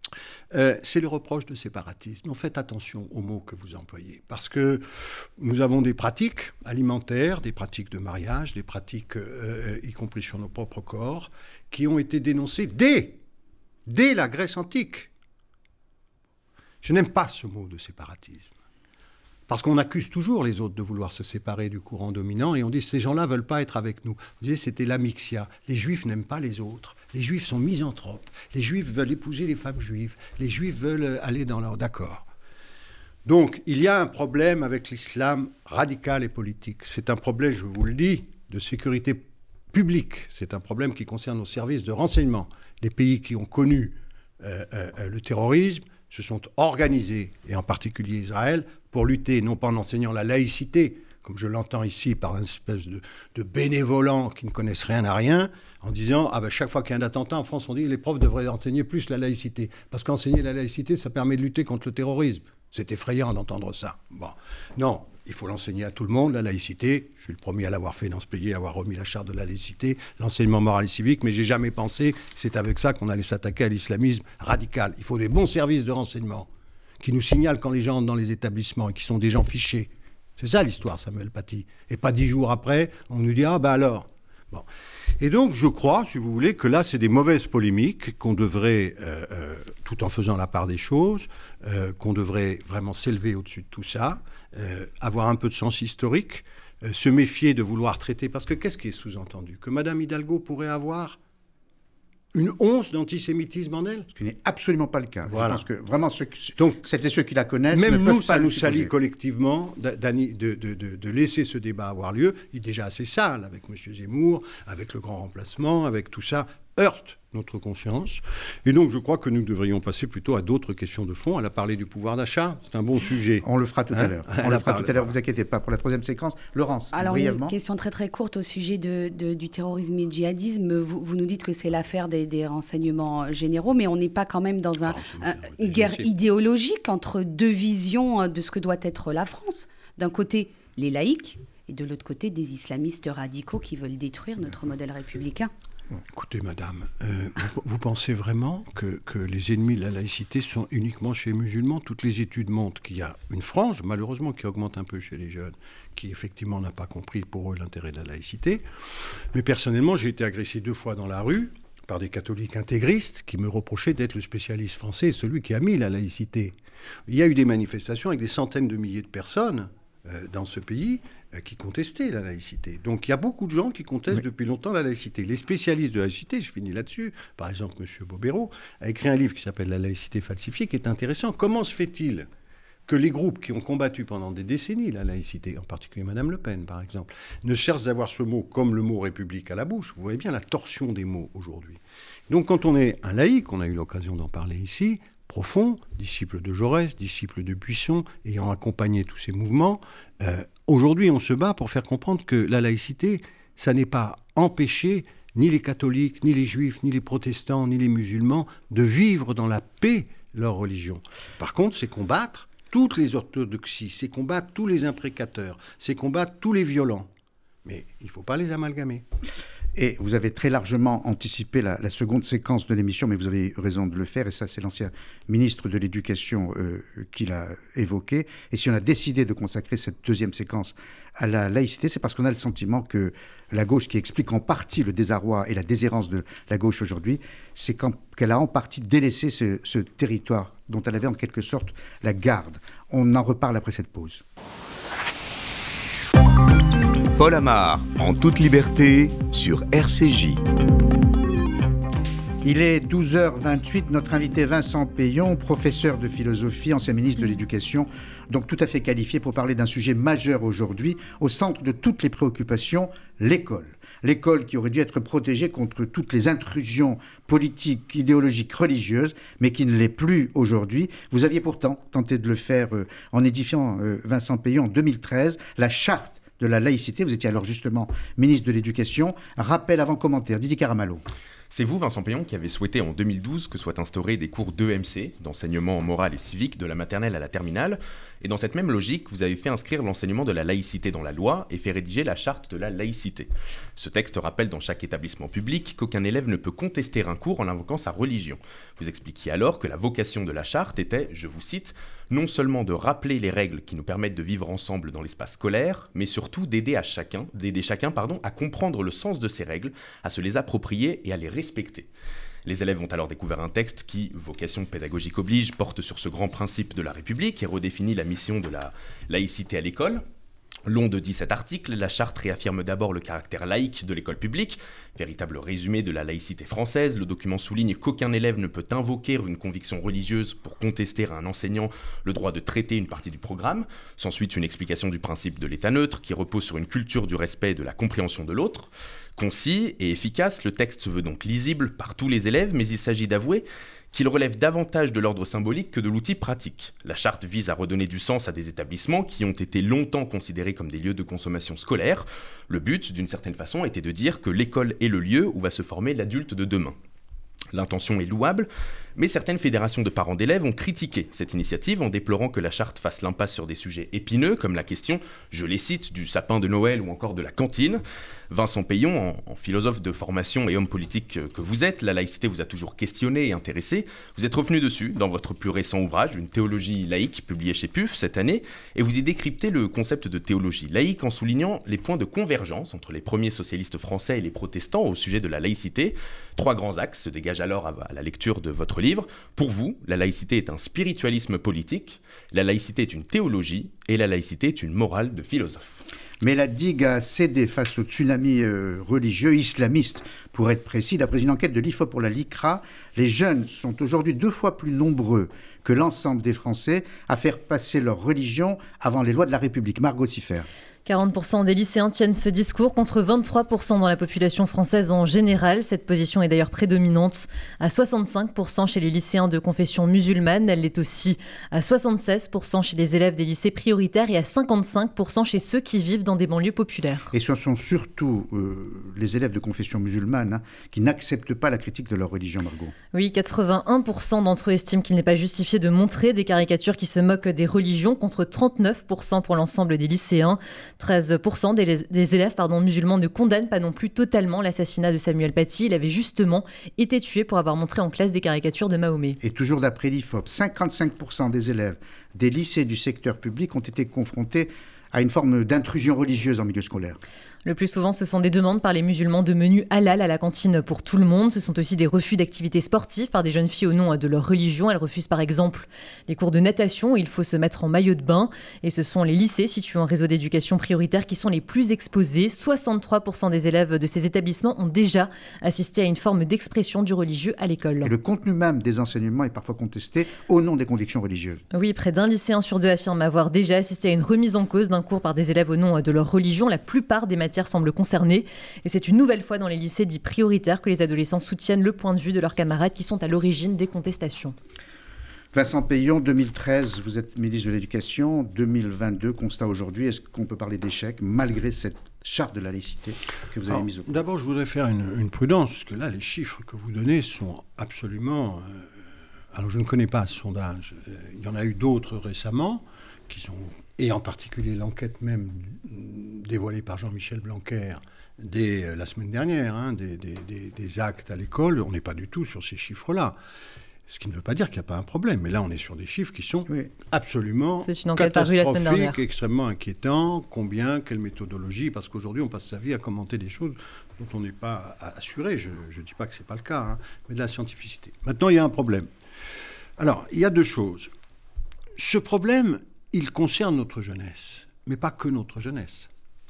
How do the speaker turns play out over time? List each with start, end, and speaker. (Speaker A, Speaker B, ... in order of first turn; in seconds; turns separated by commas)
Speaker A: 0.5-13.2, Speaker A: 13.9-15.1, Speaker A: 16.8-18.5, Speaker A: 19.5-32.3, Speaker A: 33.2-76.5, Speaker A: 77.0-84.7, Speaker A: 85.2-101.2, Speaker A: 102.3-104.1, Speaker B: 104.2-108.9, Speaker A: 105.3-105.6, Speaker A: 107.7-125.1, Speaker B: 123.4-127.5, Speaker C: 126.9-145.5, Speaker A: 134.8-136.1, Speaker A: 145.9-158.6, Speaker A: 159.3-166.5, Speaker A: 167.1-182.3, Speaker A: 182.9-217.1, Speaker A: 217.6-219.1, Speaker B: 219.7-244.2, Speaker D: 247.1-250.4, Speaker B: 252.4-281.0, Speaker E: 281.5-311.9, Speaker E: 312.4-320.0, Speaker E: 320.6-356.8, Speaker E: 357.5-395.8, Speaker B: 396.2-410.5, Speaker F: 410.9-427.1, Speaker B: 427.1-432.7, Speaker F: 432.9-449.2, Speaker B: 449.2-457.0, Speaker F: 457.4-477.9, Speaker B: 477.8-481.4, Speaker F: 481.5-494.4, Speaker B: 495.3-504.0, Speaker A: 503.5-508.7, Speaker A: 509.3-523.1, Speaker A: 523.9-538.9, Speaker F: 527.6-529.0, Speaker A: 539.8-540.9, Speaker A: 541.8-545.9